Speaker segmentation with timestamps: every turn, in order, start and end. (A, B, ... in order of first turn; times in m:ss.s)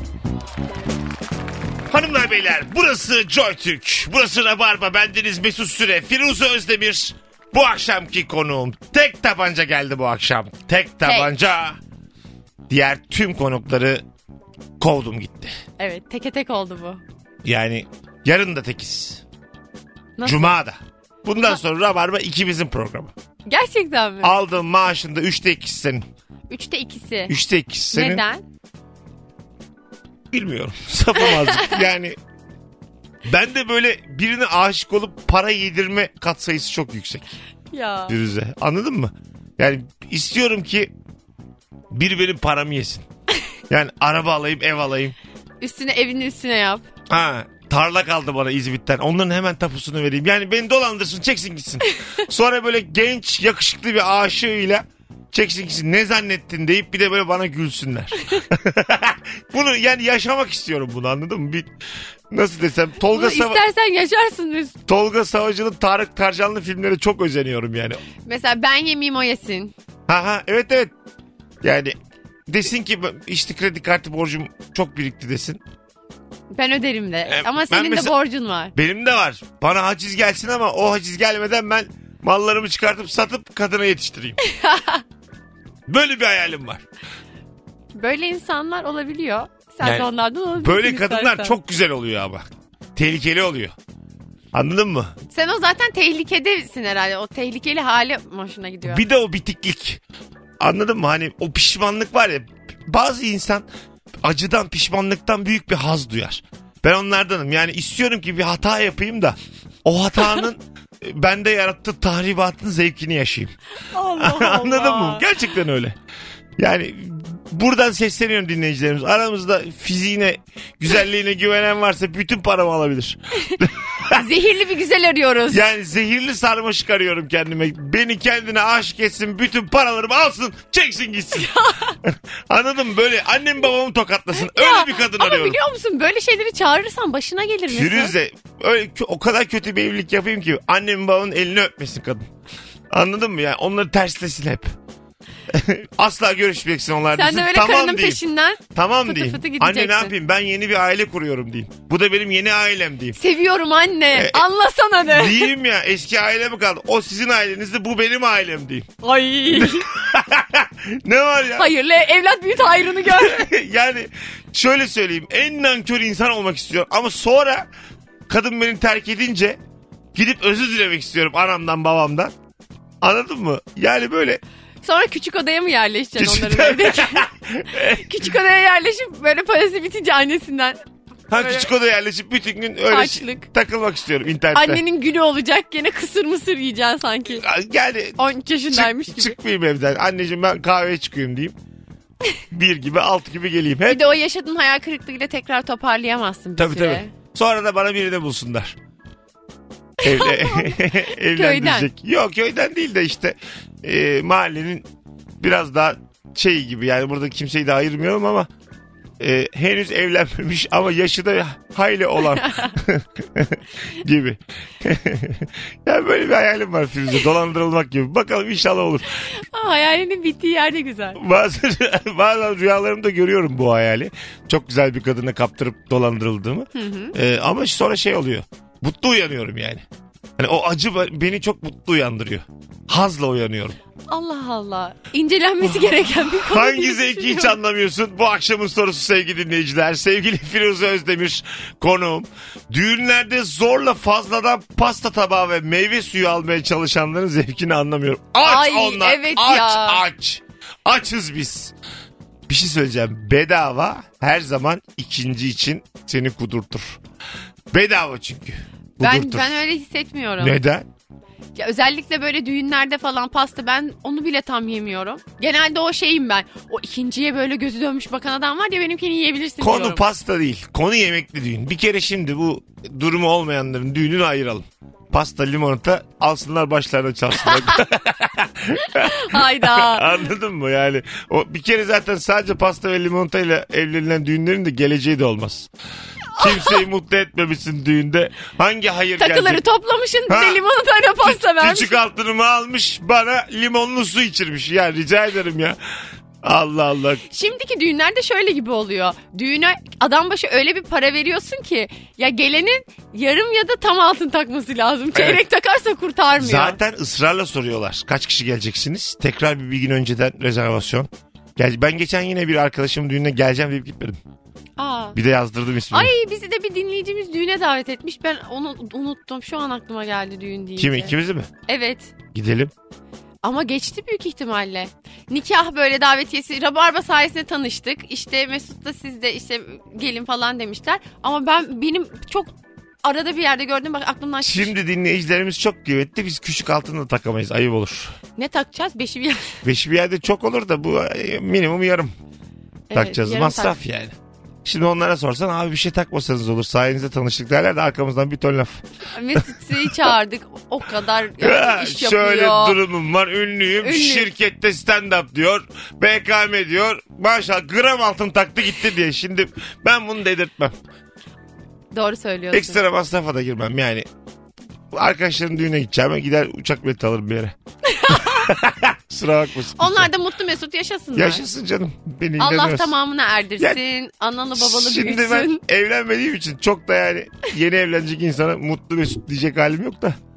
0:01.9-0:11.8 A
0:11.0-0:11.3 B
0:12.7-0:14.0 A
0:14.8-0:15.6 A
0:15.8-0:17.0 B
0:17.4-0:19.2 A
0:20.2-0:20.5 B
0:20.2-0:23.1 A
0:23.5-0:24.4 B
0:24.2-0:26.1 A
0:26.5-0:27.4 B
0:27.3-0:28.2 A
0:27.9-0:28.4 B
0:30.3-0:32.2 A
0:31.3-0:31.8 B
0:33.2-0:37.3 A
0:37.7-0:38.2 B
0:38.1-0:40.9 A
0:41.9-0:43.1 A
0:43.7-0:45.2 A
0:45.6-0:46.9 B
0:47.1-1:01.7 A
1:02.3-1:03.6 A
1:03.1-1:04.8 B
1:04.9-1:08.0 A
1:08.3-1:09.7 B
1:10.1-1:10.9 A
1:11.6-1:12.0 A
1:12.5-1:15.6 A
1:16.5-1:18.8 B
1:17.3-1:18.2 A
1:18.8-1:24.4 A
1:24.4-1:25.0 B
1:25.9-1:26.8 A
1:27.9-1:31.6 B
1:29.8-1:33.8 A
1:34.5-1:35.2 A
1:35.3-1:39.0 B
1:38.8-1:40.0 A
1:40.6-1:43.7 A
1:44.2-1:53.5 A
1:53.9-1:55.3 B
1:54.2-1:56.0 A
1:56.6-2:04.2 A
2:04.1-2:05.7 B
2:05.5-2:11.5 A
2:11.4-2:12.0 B
2:12.0-2:15.6 A
2:14.4-2:18.1 B
2:17.7-2:22.3 A
2:22.9-2:24.7 A
2:25.5-2:33.2 A
2:27.1-2:30.1 B
2:33.2-2:35.5 B
2:34.1-2:34.5 A
2:35.0-2:38.9 A
2:39.0-2:39.9 B
2:39.5-2:41.7 A
2:41.5-2:43.5 B
2:42.8-2:47.7 A
2:48.3-2:49.6 A
2:50.2-2:52.3 A
2:53.0-2:54.4 A
2:54.8-3:00.8 B
2:56.2-2:58.3 A
3:01.3-3:04.8 A
3:01.3-3:01.7 B
3:02.9-3:03.5 B
3:04.5-3:07.5 B
3:07.3-3:11.6 A
3:08.2-3:09.4 B
3:12.5-3:14.1 A
3:13.9-3:17.1 B
3:16.6-3:18.8 A
3:20.0-3:21.9 B
3:20.0-3:24.9 A
3:25.4-3:28.5 A
3:29.2-3:39.2 A
3:32.4-3:32.7 B
3:39.2-3:41.2 B
3:41.2-3:49.8 A
3:46.7-3:47.2 B
3:50.4-3:53.8 A
3:54.1-3:57.6 B
3:56.3-4:11.8 A
4:08.4-4:10.0 B
4:12.5-4:17.0 A
4:17.7-4:19.6 A
4:19.0-4:20.6 B
4:20.4-4:20.9 A
4:21.6-4:30.0 B
4:29.6-4:45.7 A
4:37.5-4:37.8 B
4:38.8-4:40.2 B
4:46.3-4:46.8 B
4:46.4-4:49.6 A
4:49.2-4:52.0 B
4:50.3-4:50.6 A
4:51.2-4:57.2 A
4:57.3-5:06.8 B
5:05.1-5:05.4 A
5:06.4-5:14.2 A
5:14.8-5:15.2 B
5:15.2-5:16.1 A
5:15.9-5:21.1 B
5:20.8-5:21.5 A
5:21.7-5:22.1 B
5:22.3-5:22.7 A
5:23.4-5:34.7 B
5:34.4-5:38.2 A
5:38.4-5:39.6 B
5:39.6-5:42.1 A
5:42.9-5:43.8 B
5:42.9-5:48.8 A
5:49.1-5:52.8 B
5:49.4-5:50.0 A
5:51.4-6:00.8 A
5:53.8-5:54.3 B
6:01.9-6:02.8 B
6:02.5-6:04.1 A
6:04.9-6:07.6 A
6:07.9-6:08.5 B
6:08.1-6:10.1 A
6:09.8-6:11.4 B
6:11.2-6:12.9 A
6:12.4-6:15.6 B
6:14.6-6:20.2 A